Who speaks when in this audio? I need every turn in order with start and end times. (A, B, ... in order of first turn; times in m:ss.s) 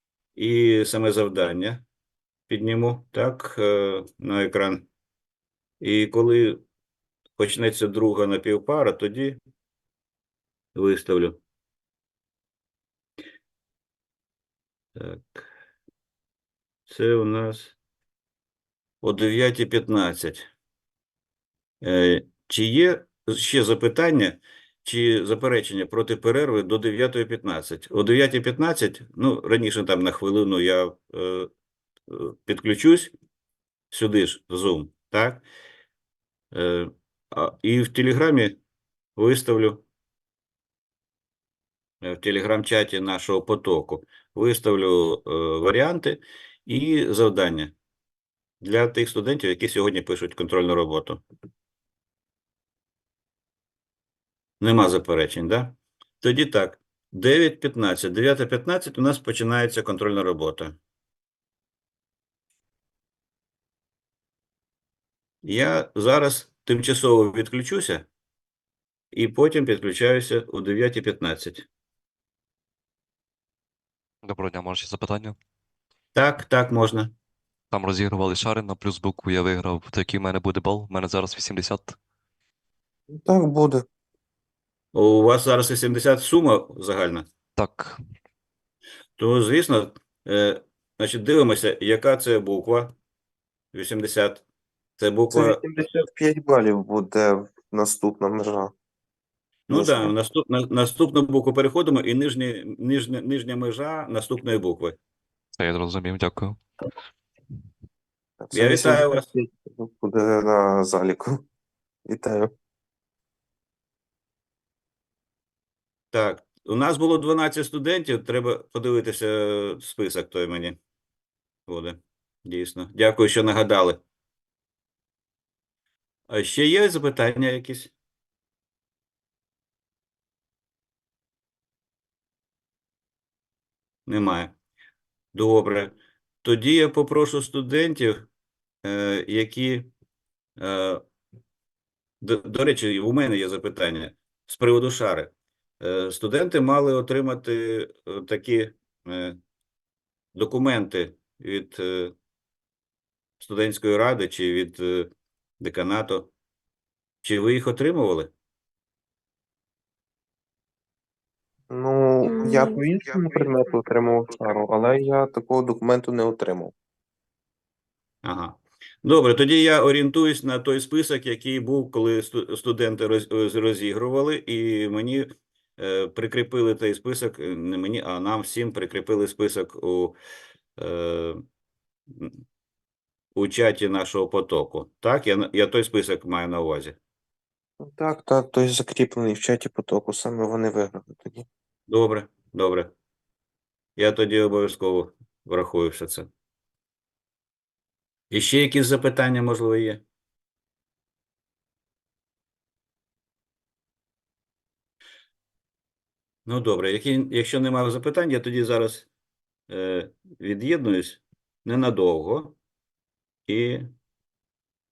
0:00.4-0:01.8 A
0:02.5-0:04.9 A
0:05.8-0:06.6 A
0:07.4-0:09.4 A
0:10.7-0:11.4 A
0:15.0-0:15.5 A
0:16.9-0:17.8 A
0:19.0-0:20.4 A
0:21.8-0:31.5 A
0:32.1-0:33.1 A
0:33.9-0:35.4 A
0:36.5-0:38.6 A
0:39.2-0:39.8 A
0:42.0-0:47.7 A
0:48.6-0:51.2 A
0:54.6-1:00.8 A
1:05.4-1:08.1 A
1:09.1-1:11.6 A
1:14.2-1:15.4 B
1:16.1-1:17.1 A
1:17.7-1:22.0 B
1:23.1-1:23.8 C
1:24.9-1:27.3 A
1:27.6-1:28.0 B
1:29.2-1:33.0 A
1:33.7-1:34.4 A
1:35.0-1:35.6 A
1:35.3-1:38.7 C
1:39.7-1:45.0 A
1:39.7-1:40.1 C
1:45.6-1:46.6 B
1:48.4-1:51.4 C
1:48.5-1:49.3 A
1:52.1-1:52.5 C
1:56.1-2:00.8 A
2:01.7-2:04.0 A
2:06.3-2:07.9 A
2:14.1-2:14.5 A
2:15.3-2:18.3 A
2:18.8-2:19.9 A
2:20.6-2:21.0 A
2:22.2-2:29.4 A
2:30.3-2:32.1 A
2:33.4-2:36.3 A
2:37.2-2:38.3 A
2:41.7-2:46.7 C
2:48.2-3:00.2 A
3:00.8-3:01.4 A
3:03.3-3:07.0 A
3:07.8-3:11.4 C
3:11.9-3:12.9 A
3:14.0-3:16.3 A
3:18.3-3:20.0 A
3:26.4-3:29.1 A
3:29.7-3:32.6 A
3:33.5-3:33.9 A